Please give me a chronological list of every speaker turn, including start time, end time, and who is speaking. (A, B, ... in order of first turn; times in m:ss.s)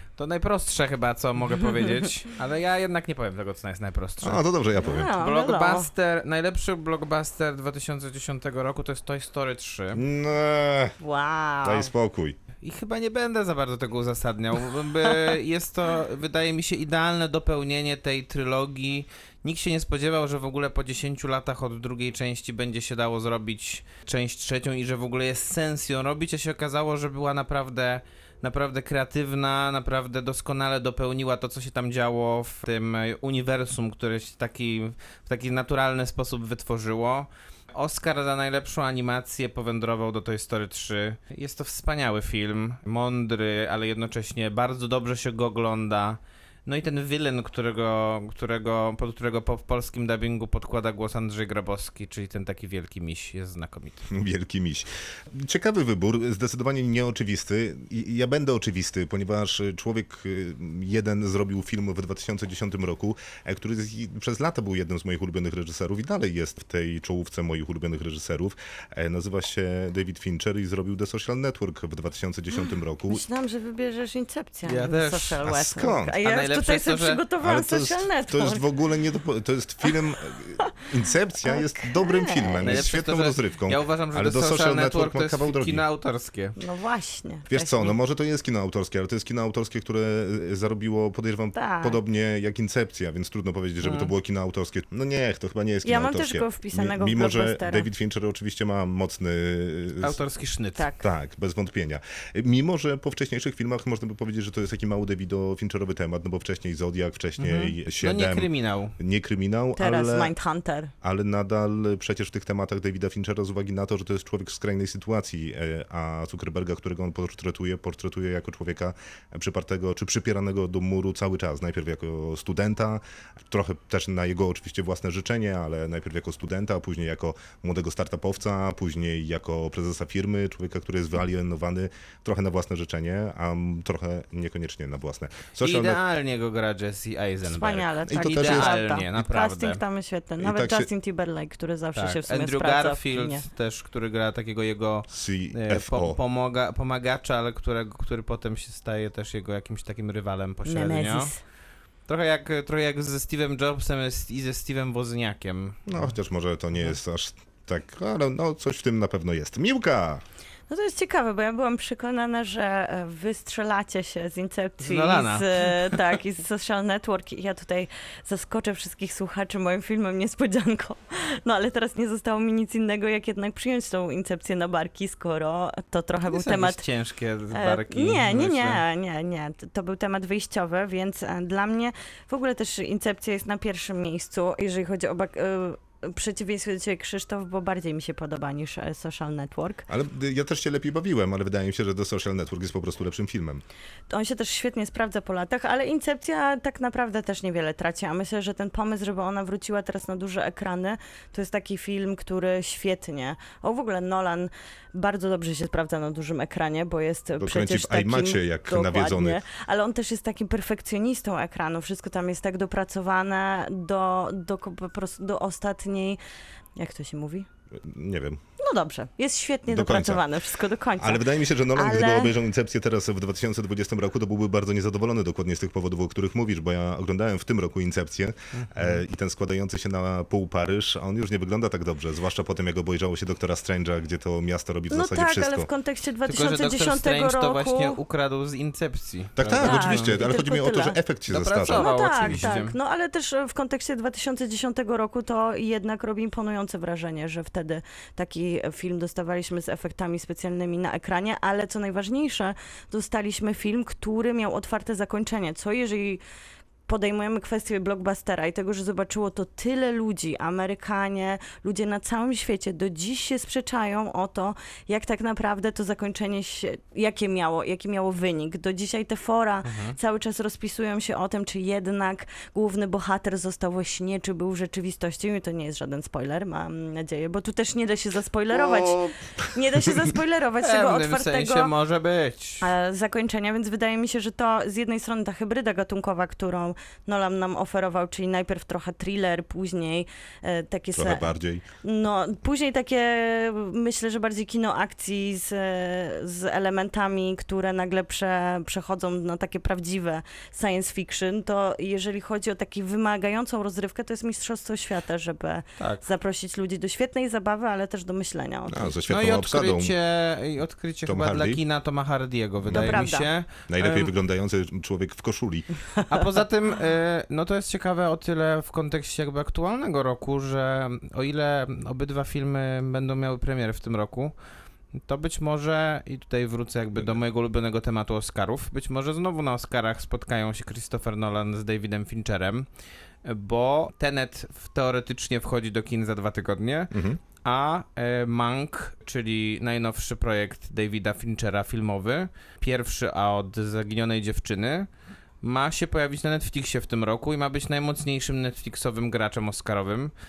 0:00.2-0:04.4 A
0:04.2-0:05.1 B
0:04.8-0:05.9 C
0:05.2-0:10.0 A
0:09.9-0:11.0 B
0:11.0-0:11.9 C
0:11.6-0:12.4 B
0:12.6-0:54.0 A
0:54.1-1:13.2 B
1:13.1-1:18.6 C
1:14.7-1:15.4 A
1:15.4-1:16.1 B
1:16.2-1:17.2 A
1:17.4-1:25.8 B
1:21.4-1:22.8 C
1:22.6-1:26.6 A
1:26.6-1:27.9 C
1:27.5-1:40.2 B
1:31.5-1:32.0 C
1:33.8-1:34.1 A
1:35.8-1:37.9 C
1:40.0-1:40.9 A
1:40.8-1:41.0 C
1:41.0-1:50.3 B
1:47.4-1:49.0 A
1:49.8-1:50.9 C
1:51.0-2:16.0 B
2:15.6-2:19.8 A
2:17.5-2:23.4 C
2:18.1-2:18.8 B
2:20.4-2:20.9 B
2:22.0-2:31.3 A
2:25.1-2:26.2 B
2:30.7-2:31.4 C
2:32.1-2:36.1 A
2:35.9-2:40.2 B
2:40.7-2:56.8 C
2:44.8-2:46.0 A
2:56.3-2:58.8 A
2:57.5-3:09.9 C
3:09.9-3:13.6 B
3:14.1-3:36.2 C
3:27.4-3:29.4 B
3:36.8-3:37.5 C
3:37.7-3:38.4 B
3:38.6-3:42.3 C
3:39.7-3:40.2 B
3:41.0-3:55.7 B
3:48.6-3:49.0 A
3:54.9-3:58.0 C
3:56.3-4:00.1 A
3:59.4-4:02.5 B
3:59.6-4:01.0 C
4:01.3-4:02.7 A
4:01.7-4:16.2 C
4:16.9-4:41.7 C
4:29.6-4:30.0 A
4:38.5-4:40.1 B
4:40.6-4:42.7 A
4:42.6-4:51.3 C
4:51.0-4:51.6 B
4:51.8-5:08.9 C
5:05.8-5:06.0 A
5:08.7-5:09.9 B
5:09.1-5:14.1 A
5:11.1-5:11.6 B
5:12.6-5:13.0 B
5:12.7-5:13.3 C
5:13.7-5:15.7 B
5:16.1-5:24.3 A
5:25.0-5:32.7 A
5:33.2-5:44.9 A
5:36.9-5:37.2 B
5:45.4-5:50.1 A